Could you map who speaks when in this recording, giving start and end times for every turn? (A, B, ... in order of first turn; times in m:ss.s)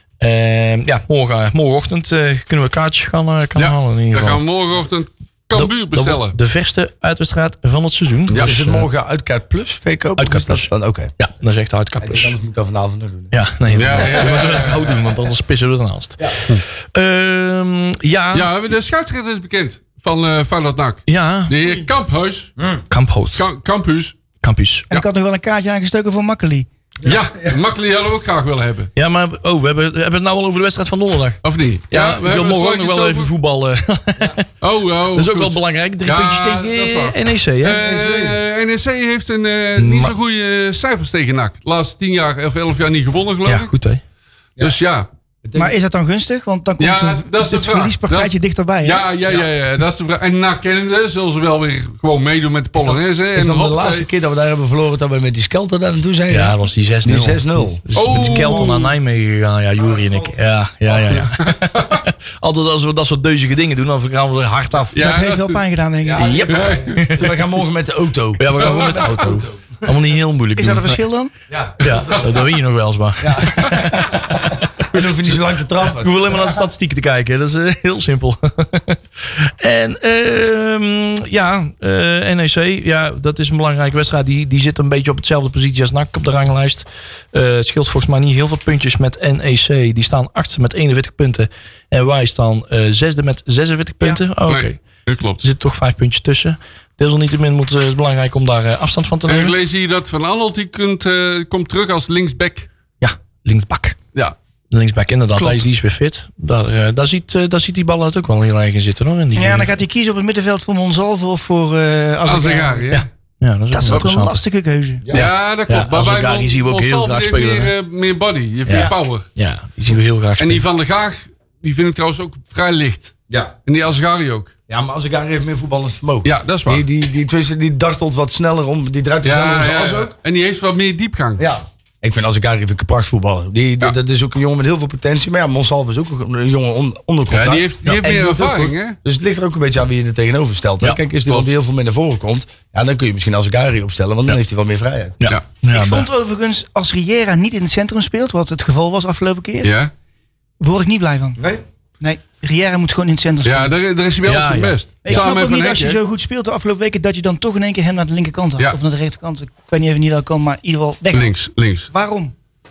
0:00.2-0:04.4 A
0:03.6-0:06.4 B
0:05.5-0:08.9 A
0:08.3-0:08.6 B
0:08.4-0:11.1 C
0:10.2-0:12.4 A
0:12.0-0:13.3 C
0:13.3-0:18.5 A
0:13.7-0:15.0 B
0:18.3-0:22.5 B
0:21.1-0:21.6 A
0:22.6-0:22.8 C
0:22.9-0:23.5 A
0:23.4-0:24.2 B
0:24.4-0:25.0 A
0:24.9-0:26.7 D
0:27.0-0:27.6 C
0:27.0-0:28.9 B
0:29.0-0:34.5 A
0:31.4-0:33.3 B
0:34.6-0:43.7 B
0:35.1-0:37.8 A
0:37.8-0:38.4 C
0:39.8-0:40.2 A
0:43.4-0:44.0 A
0:44.6-0:45.1 B
0:45.4-0:45.7 C
0:45.6-0:49.0 D
0:46.8-0:54.1 B
0:52.8-0:58.7 C
0:56.3-1:05.0 A
0:57.9-0:58.9 B
0:59.9-1:00.3 C
1:01.1-1:02.0 B
1:04.9-1:05.6 B
1:05.0-1:06.5 D
1:06.0-1:09.8 C
1:06.2-1:07.4 A
1:06.5-1:07.0 B
1:08.4-1:11.0 A
1:08.6-1:09.0 B
1:10.6-1:11.3 D
1:11.5-1:12.5 C
1:11.8-1:15.4 A
1:11.8-1:12.1 B
1:13.2-1:16.6 C
1:16.0-1:34.8 A
1:34.5-1:35.4 B
1:35.4-1:39.6 A
1:39.3-1:42.7 B
1:43.0-1:44.0 A
1:44.7-1:49.8 A
1:49.4-1:52.9 D
1:52.3-1:53.1 B
1:52.9-1:54.4 A
1:53.7-1:55.0 D
1:55.1-1:57.7 A
1:55.1-1:59.3 B
1:58.7-2:00.6 A
2:00.4-2:03.1 B
2:03.7-2:04.5 B
2:04.7-2:10.1 C
2:06.2-2:06.9 B
2:09.2-2:11.5 B
2:11.4-2:25.2 C
2:17.3-2:19.0 B
2:25.2-2:26.1 A
2:25.7-2:29.7 D
2:29.6-2:29.9 B
2:30.6-2:31.4 D
2:31.4-2:31.6 C
2:32.0-2:33.7 D
2:33.4-2:36.0 B
2:34.2-2:35.2 A
2:35.0-2:41.4 D
2:41.1-2:41.9 B
2:41.9-2:42.3 D